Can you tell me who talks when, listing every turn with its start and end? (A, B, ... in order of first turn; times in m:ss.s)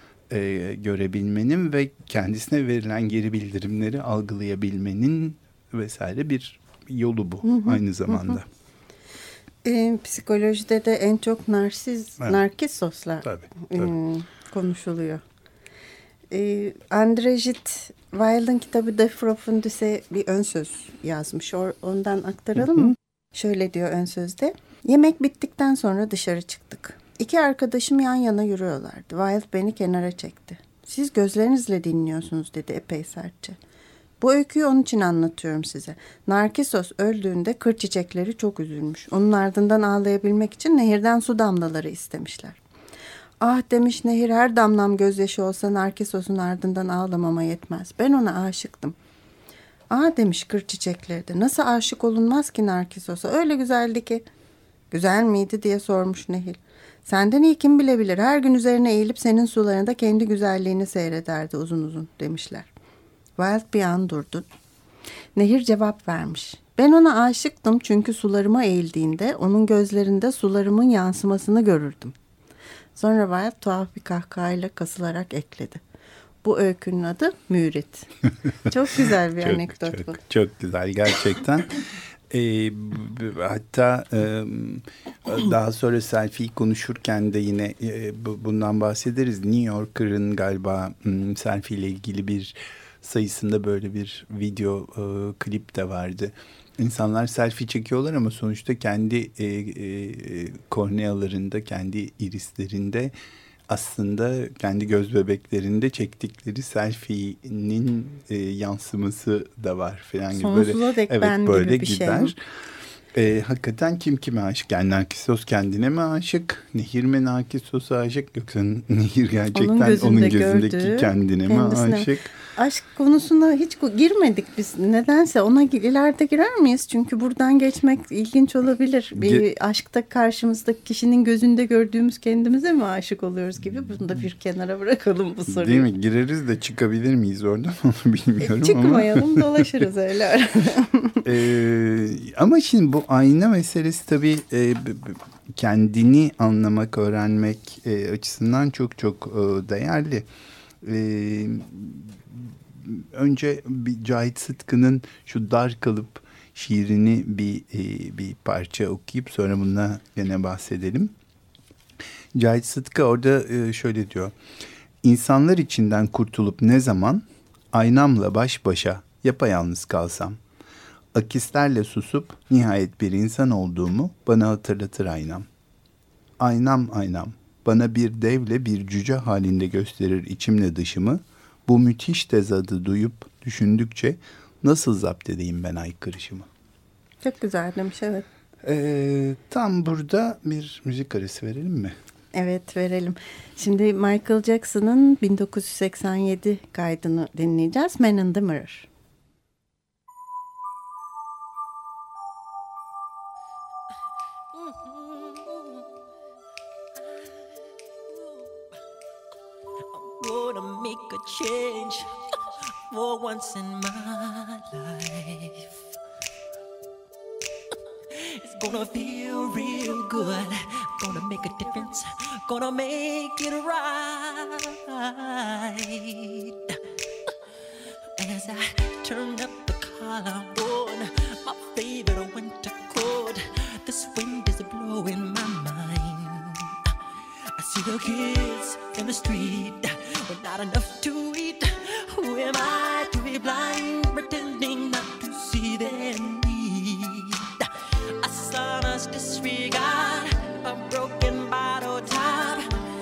0:00.3-0:08.4 A
0:07.4-0:08.2 B
0:09.6-0:15.2 B
0:13.2-0:13.9 A
0:16.3-0:33.6 B
0:34.2-0:42.6 B
0:43.4-0:49.0 B
0:49.9-0:54.2 B
0:54.9-1:02.7 B
1:03.4-1:04.4 B
1:05.4-1:12.1 B
1:13.0-1:15.8 B
1:16.4-1:18.1 B
1:18.6-1:20.2 B
1:19.4-1:43.1 A
1:43.7-1:52.4 A
1:50.3-1:52.3 B
1:53.1-2:02.3 A
1:59.5-2:15.9 B
2:09.2-2:09.4 A
2:15.5-2:19.7 A
2:18.4-2:21.3 B
2:21.2-2:30.3 A
2:30.8-2:41.1 A
2:42.3-2:44.3 A
2:45.0-2:50.4 A
2:51.1-2:55.5 A
2:56.4-3:06.5 A
3:07.2-3:08.2 B
3:08.6-3:11.9 A
3:12.3-3:18.9 B
3:29.9-3:32.1 C
3:32.9-3:35.8 C
3:38.1-3:46.8 C
3:48.2-3:56.9 C
3:57.5-4:12.7 C